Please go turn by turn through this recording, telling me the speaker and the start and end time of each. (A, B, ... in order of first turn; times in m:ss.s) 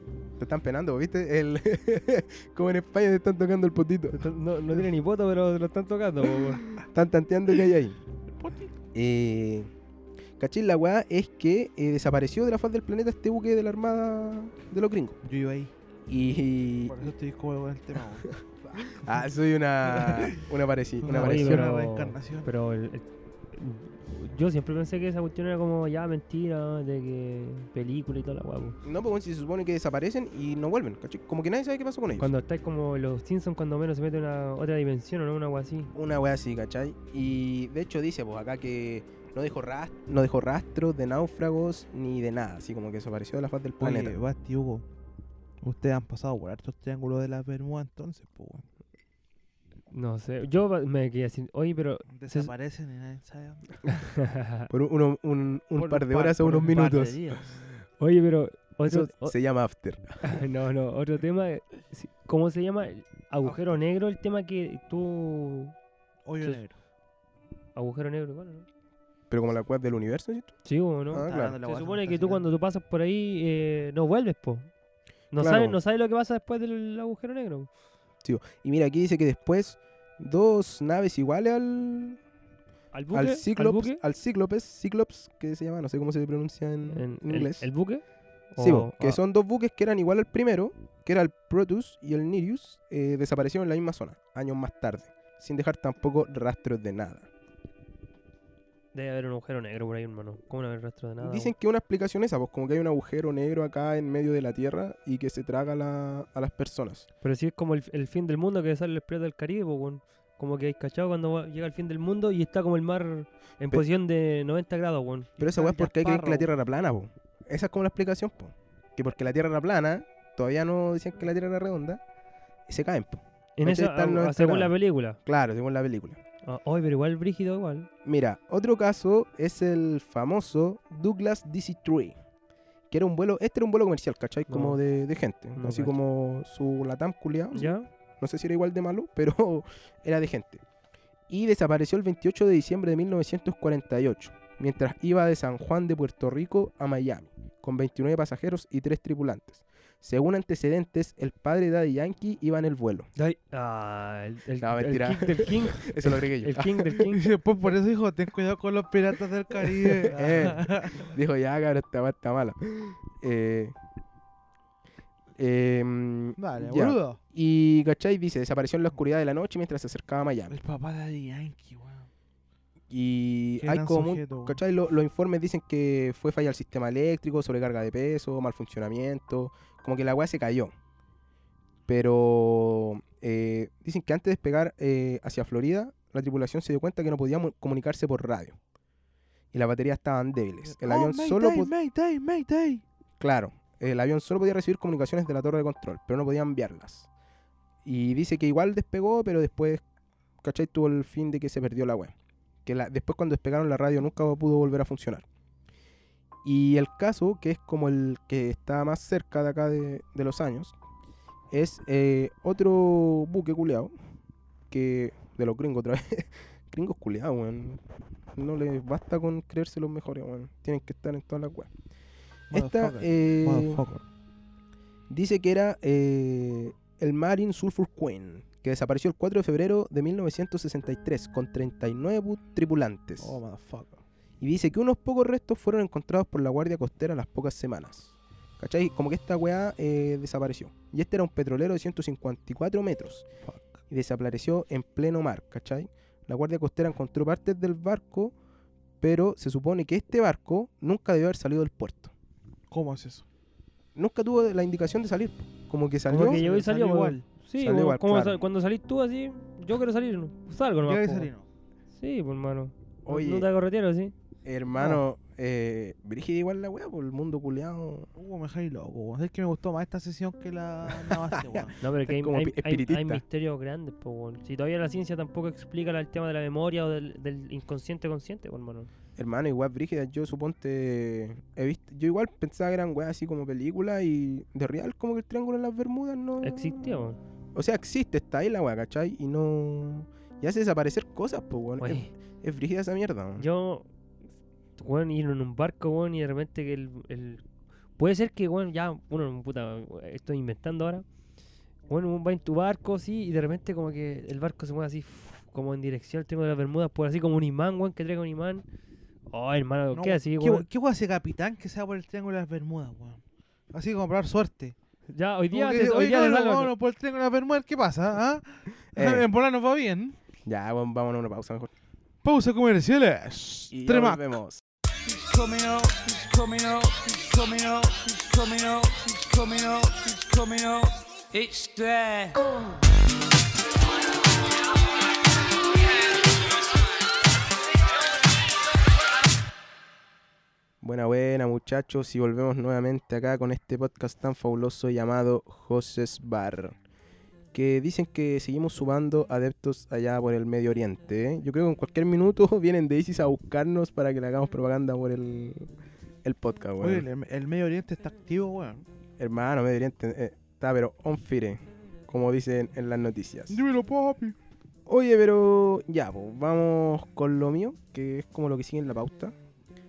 0:00.4-0:04.2 A
0:04.1-0:06.6 B
0:06.8-0:08.0 A
0:08.4-0:08.7 C
0:08.9-0:09.7 A
0:10.4-0:15.2 A
0:15.2-0:15.7 C
0:16.1-0:17.1 A
0:16.9-0:19.2 C
0:18.7-0:21.7 A
0:19.8-0:20.4 C
0:21.0-0:22.5 C
0:21.1-0:28.8 B
0:28.8-0:32.3 A
0:32.2-0:35.9 B
0:35.9-0:44.2 A
0:43.8-0:44.8 C
0:45.6-0:48.7 C
0:49.9-0:52.5 B
0:52.1-0:53.9 C
0:53.9-0:54.7 B
0:54.7-0:57.4 A
0:55.8-0:57.6 C
0:58.0-0:59.3 B
0:58.9-1:00.3 A
1:00.2-1:05.7 B
1:06.3-1:06.7 C
1:07.8-1:08.7 B
1:09.3-1:10.6 A
1:10.6-1:14.7 B
1:11.1-1:11.6 A
1:11.2-1:12.5 C
1:15.3-1:17.7 B
1:15.4-1:15.8 A
1:18.2-1:22.2 A
1:22.9-1:24.0 B
1:23.1-1:27.7 A
1:26.9-1:29.2 B
1:28.6-1:37.3 A
1:38.9-1:41.5 B
1:41.2-1:47.1 A
1:47.2-1:55.3 B
1:55.4-2:02.0 A
1:55.4-1:56.5 C
2:02.7-2:04.7 A
2:03.6-2:05.2 B
2:05.3-2:06.2 A
2:06.4-2:07.9 B
2:08.0-2:12.2 A
2:12.9-2:20.6 A
2:14.5-2:14.8 B
2:15.6-2:16.0 B
2:17.5-2:17.9 B
2:21.3-2:33.1 A
2:33.2-2:37.3 B
2:34.6-2:37.1 A
2:37.1-2:41.2 C
2:39.8-2:43.7 A
2:45.4-2:50.6 A
2:46.4-2:47.2 C
2:50.5-2:52.1 C
2:52.9-3:00.7 A
2:53.6-2:54.6 C
3:01.9-3:08.6 A
3:09.5-3:11.7 A
3:10.6-3:12.8 C
3:13.2-3:17.1 A
3:17.8-3:19.8 A
3:20.4-3:22.1 A
3:22.6-3:25.2 A
3:26.4-3:30.8 A
3:31.5-3:33.9 A
3:34.7-3:37.8 A
3:38.4-3:41.7 A
3:42.5-3:44.0 C
3:42.5-3:43.8 A
3:45.1-3:53.4 A
3:53.2-3:53.9 C
3:54.4-4:03.3 A
4:03.5-4:03.8 C
4:03.9-4:08.3 A
4:09.0-4:12.1 A
4:12.7-4:13.2 C
4:14.0-4:16.4 A
4:16.1-4:21.3 B
4:16.1-4:17.2 C
4:17.6-4:18.4 A
4:20.9-4:21.4 C
4:22.0-4:24.1 B
4:23.1-4:23.5 A
4:24.4-4:28.1 A
4:24.8-4:25.0 C
4:28.2-4:31.8 C
4:30.9-4:33.2 A
4:31.8-4:38.9 B
4:39.2-4:46.9 A
4:46.4-4:47.2 B
4:47.6-4:53.5 A
4:51.8-4:52.1 B
4:53.4-4:53.9 B
4:54.8-4:57.4 B
4:58.0-5:01.0 B
5:01.9-5:08.6 B
5:09.3-5:10.7 B
5:09.9-5:13.2 C
5:13.7-5:14.8 C
5:15.1-5:16.7 B
5:15.5-5:20.2 C
5:18.9-5:19.3 A
5:20.4-5:21.7 A
5:22.2-5:24.2 C
5:23.7-5:24.6 A
5:25.0-5:32.5 D
5:40.8-5:46.8 A
5:47.5-5:55.7 A
5:56.2-5:57.1 A
5:56.8-5:58.9 C
5:59.2-6:03.6 A
6:03.5-6:04.4 C
6:04.9-6:09.3 A